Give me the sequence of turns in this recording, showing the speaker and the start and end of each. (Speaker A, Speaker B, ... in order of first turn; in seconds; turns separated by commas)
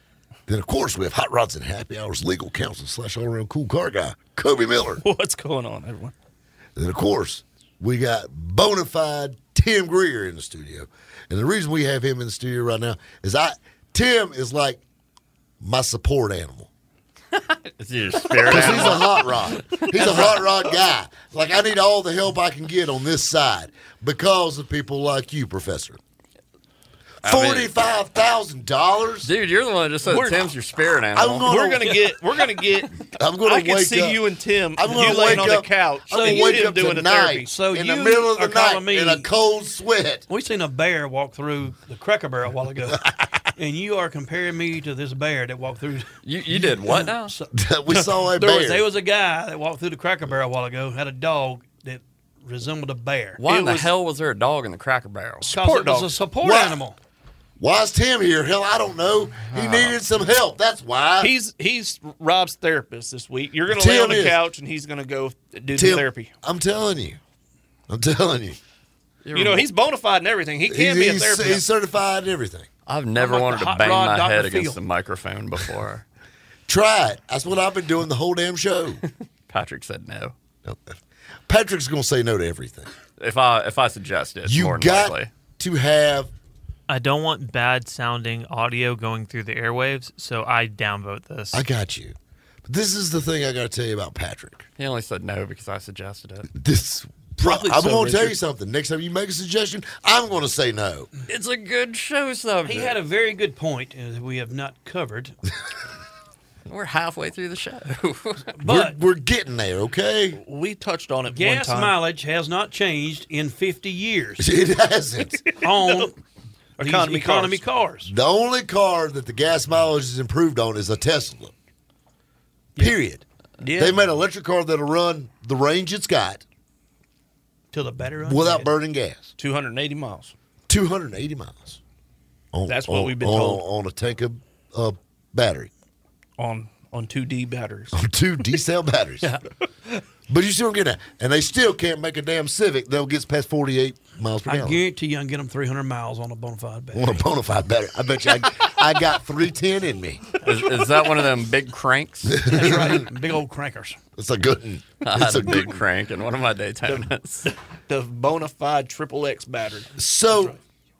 Speaker A: 0.5-5.0, Speaker B: 5.0-6.1, Speaker A: 6.8-14.8, Speaker A: 15.6-16.7, Speaker C: 17.4-20.5, Speaker B: 18.4-18.9, Speaker A: 18.4-26.0, Speaker C: 27.2-27.7, Speaker A: 27.2-29.3, Speaker C: 29.2-31.5, Speaker B: 30.0-30.5, Speaker A: 31.1-32.0, Speaker B: 31.4-37.5, Speaker A: 33.1-34.2, Speaker A: 34.8-40.2, Speaker D: 34.9-35.5, Speaker D: 36.1-36.7, Speaker D: 37.4-39.3, Speaker D: 40.3-53.4, Speaker C: 46.2-47.3, Speaker A: 47.5-48.9, Speaker C: 53.4-55.5, Speaker B: 53.4-53.9, Speaker B: 55.4-56.2, Speaker D: 55.5-57.0, Speaker A: 56.4-56.8, Speaker A: 57.6-61.3, Speaker C: 59.5-60.0, Speaker B: 61.2-66.3, Speaker A: 63.7-64.4, Speaker A: 65.7-67.2, Speaker A: 67.9-68.6, Speaker C: 69.2-69.7, Speaker B: 69.3-71.6, Speaker A: 70.7-72.7, Speaker C: 72.8-76.0, Speaker D: 73.2-74.8, Speaker A: 76.7-79.0, Speaker C: 79.5-80.3, Speaker A: 80.6-81.0, Speaker A: 81.5-82.9, Speaker C: 83.2-85.3, Speaker A: 84.4-86.3, Speaker E: 86.9-91.6, Speaker A: 91.5-94.7, Speaker C: 94.8-96.5, Speaker A: 96.5-101.1, Speaker D: 97.5-98.3, Speaker B: 97.5-98.3, Speaker C: 101.3-103.0, Speaker D: 102.7-105.3, Speaker C: 106.7-108.4, Speaker D: 108.5-109.0, Speaker A: 108.6-110.4, Speaker B: 110.3-112.0, Speaker D: 111.3-114.5, Speaker A: 114.4-115.4, Speaker B: 115.4-116.1, Speaker D: 115.6-116.2, Speaker B: 116.8-117.6, Speaker D: 116.8-118.1, Speaker A: 118.0-121.5, Speaker A: 122.8-123.2, Speaker B: 123.6-124.0, Speaker A: 123.8-126.4, Speaker D: 127.7-128.7, Speaker A: 128.2-129.3, Speaker B: 129.4-130.3, Speaker A: 130.7-131.8, Speaker A: 132.5-135.7, Speaker B: 132.7-133.6, Speaker B: 136.4-137.9, Speaker A: 137.9-139.3, Speaker A: 140.3-144.8, Speaker D: 144.4-147.2, Speaker A: 146.9-150.2, Speaker C: 150.4-152.6, Speaker A: 152.2-153.1, Speaker D: 152.4-154.0, Speaker A: 154.2-155.8, Speaker C: 155.0-157.5, Speaker B: 156.9-159.9, Speaker A: 159.9-160.5